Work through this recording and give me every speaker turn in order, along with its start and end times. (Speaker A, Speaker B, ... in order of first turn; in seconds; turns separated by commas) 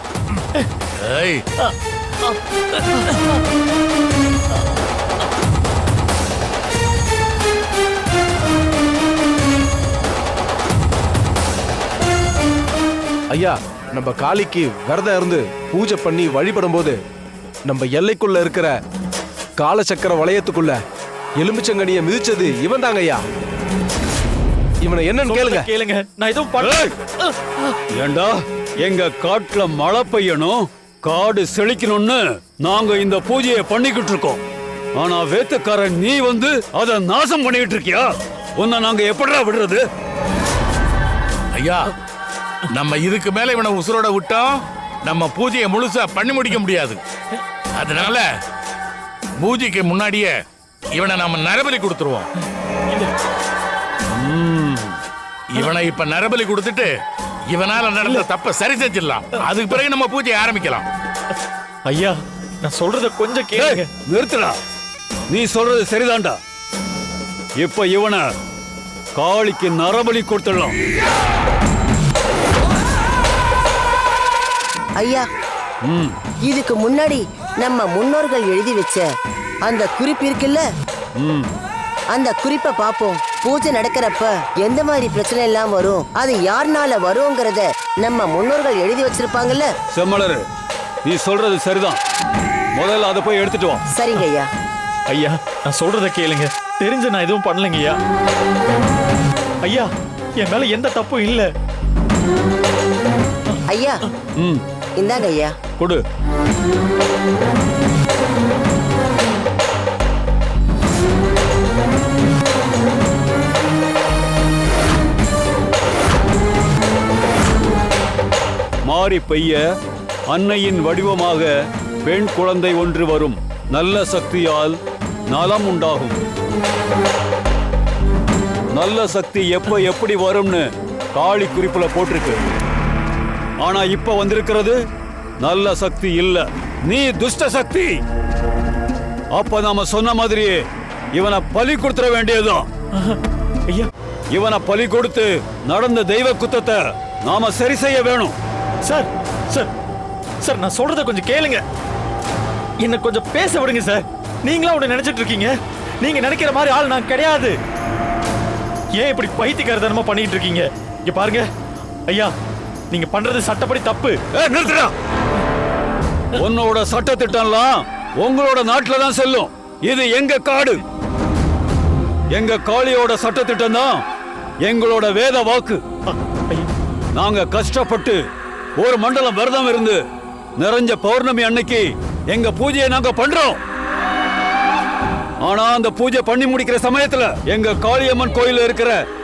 Speaker A: 1.0-1.4, Speaker B: 2.8-3.2, Speaker C: 13.3-17.0, Speaker C: 17.7-18.8, Speaker C: 19.6-20.8, Speaker C: 21.4-23.2, Speaker C: 24.8-25.7, Speaker B: 25.2-27.3, Speaker D: 26.6-26.9, Speaker D: 27.9-34.4, Speaker D: 35.0-39.8, Speaker A: 41.5-41.9, Speaker A: 42.7-47.0, Speaker A: 47.8-48.3, Speaker A: 49.4-50.4, Speaker A: 50.9-52.3, Speaker D: 54.1-55.0, Speaker A: 55.5-56.9, Speaker A: 57.5-60.9, Speaker B: 61.9-63.9, Speaker D: 63.5-64.6, Speaker D: 65.3-66.4, Speaker D: 67.6-68.3, Speaker D: 69.2-70.8, Speaker E: 75.0-75.3, Speaker D: 75.9-76.2, Speaker E: 76.5-79.1, Speaker E: 79.6-80.7, Speaker D: 81.2-81.5, Speaker E: 82.1-89.7, Speaker D: 89.9-90.5, Speaker D: 91.0-92.0, Speaker D: 92.8-93.8, Speaker E: 93.9-94.5, Speaker B: 95.1-98.0, Speaker B: 99.6-101.5, Speaker E: 103.7-104.0, Speaker D: 104.4-104.6, Speaker E: 105.0-105.5, Speaker D: 118.8-119.6, Speaker D: 120.3-121.5, Speaker D: 122.0-124.8, Speaker D: 125.3-126.2, Speaker D: 128.7-132.4, Speaker D: 133.6-134.8, Speaker D: 135.4-138.0, Speaker D: 139.3-140.6, Speaker D: 141.1-142.7, Speaker D: 144.3-148.3, Speaker B: 148.8-149.7, Speaker B: 150.4-151.6, Speaker B: 152.8-157.6, Speaker B: 158.9-161.5, Speaker B: 162.1-162.3, Speaker B: 162.9-164.2, Speaker D: 164.3-164.9, Speaker D: 166.3-170.8, Speaker D: 172.3-174.0, Speaker D: 174.6-175.8, Speaker B: 176.1-176.7, Speaker D: 177.1-178.2, Speaker D: 178.8-180.0, Speaker D: 180.6-183.6, Speaker D: 185.4-189.0